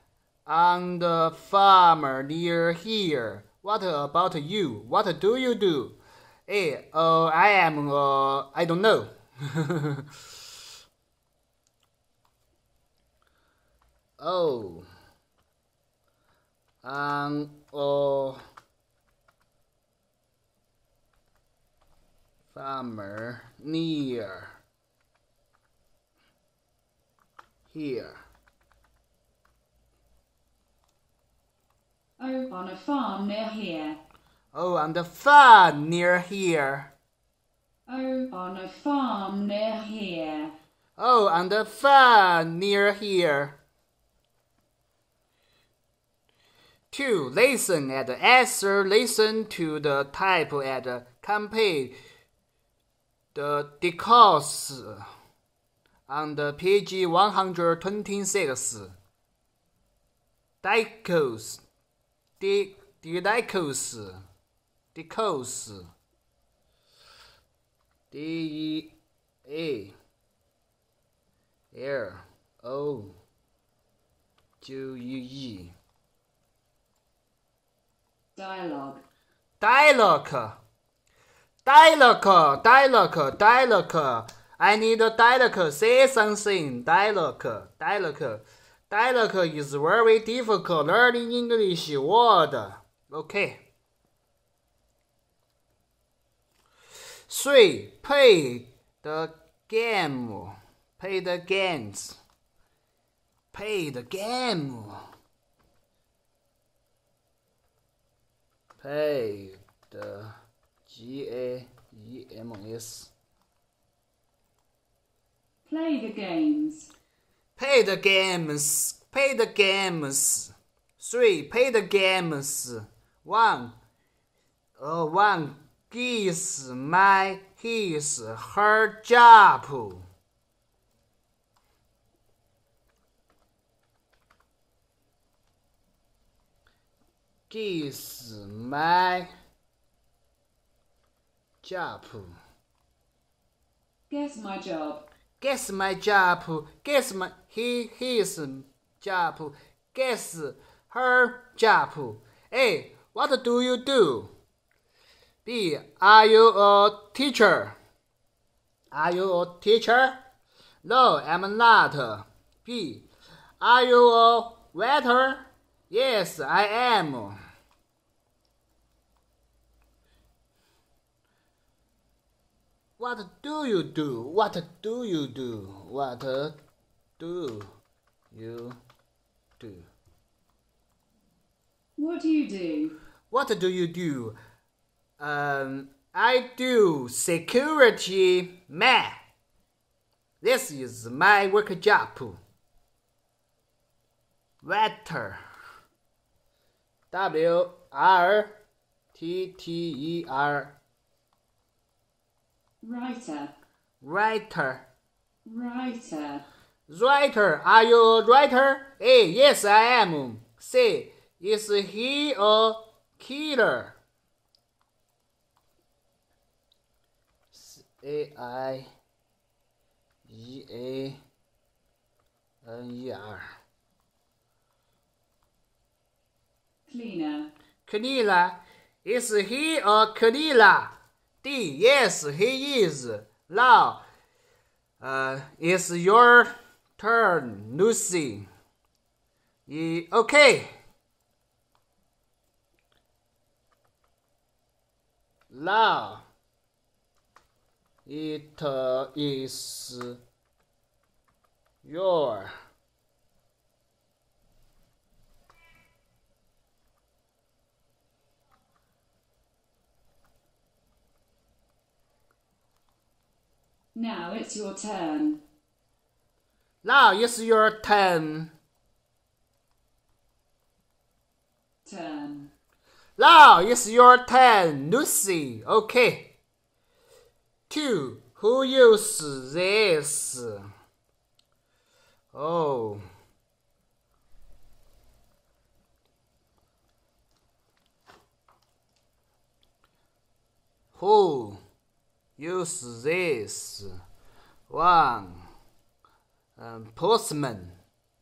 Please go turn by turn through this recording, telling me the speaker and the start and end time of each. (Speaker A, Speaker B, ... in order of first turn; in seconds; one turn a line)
Speaker A: 0.5-10.1
Speaker A: 14.2-14.9
Speaker A: 16.8-18.4
Speaker A: 22.5-24.5
Speaker A: 27.7-28.2
Speaker B: 32.2-34.0
Speaker A: 34.5-36.9
Speaker B: 37.9-40.5
Speaker A: 41.0-43.6
Speaker A: 46.9-52.0
Speaker A: 53.3-55.1
Speaker A: 56.1-58.9
Speaker A: 60.6-61.6
Speaker A: 62.4-64.2
Speaker A: 64.9-65.9
Speaker A: 68.1-70.0
Speaker A: 71.7-73.1
Speaker A: 74.6-75.7
Speaker B: 78.3-79.0
Speaker A: 79.6-80.6
Speaker A: 81.6-93.7
Speaker A: 97.3-102.2
Speaker A: 103.5-105.0
Speaker A: 108.8-110.3
Speaker A: 110.8-113.1
Speaker B: 115.7-116.9
Speaker A: 117.6-123.8
Speaker A: 124.8-130.1
Speaker A: 137.5-139.3
Speaker A: 141.6-142.3
Speaker B: 144.1-145.0
Speaker A: 145.4-154.3
Speaker A: 155.4-157.8
Speaker A: 158.9-160.2
Speaker A: 160.8-163.1
Speaker A: 163.6-167.4
Speaker A: 173.0-176.6
Speaker A: 177.2-177.7
Speaker A: 178.3-178.8
Speaker A: 179.6-179.9
Speaker B: 182.0-182.9
Speaker A: 183.3-184.4
Speaker A: 185.2-189.2
Speaker A: 190.4-192.4
Speaker A: 194.6-195.4
Speaker A: 197.1-198.6
Speaker A: 199.1-200.8
Speaker B: 202.8-203.5
Speaker A: 204.0-204.9
Speaker B: 205.4-206.4
Speaker A: 206.9-214.0
Speaker A: 217.5-218.9
Speaker A: 220.2-221.2
Speaker A: 222.6-223.4
Speaker B: 226.9-227.5
Speaker A: 227.8-234.0
Speaker A: 235.0-238.5
Speaker A: 239.7-240.7
Speaker A: 245.5-246.2
Speaker A: 248.1-250.2
Speaker A: 251.8-252.5
Speaker B: 263.9-265.4
Speaker A: 266.8-268.5
Speaker B: 271.8-272.5
Speaker A: 273.2-276.4
Speaker A: 277.7-280.6
Speaker A: 282.3-283.0
Speaker A: 290.9-291.6
Speaker A: 292.4-293.9
Speaker A: 294.7-295.5
Speaker A: 296.6-297.8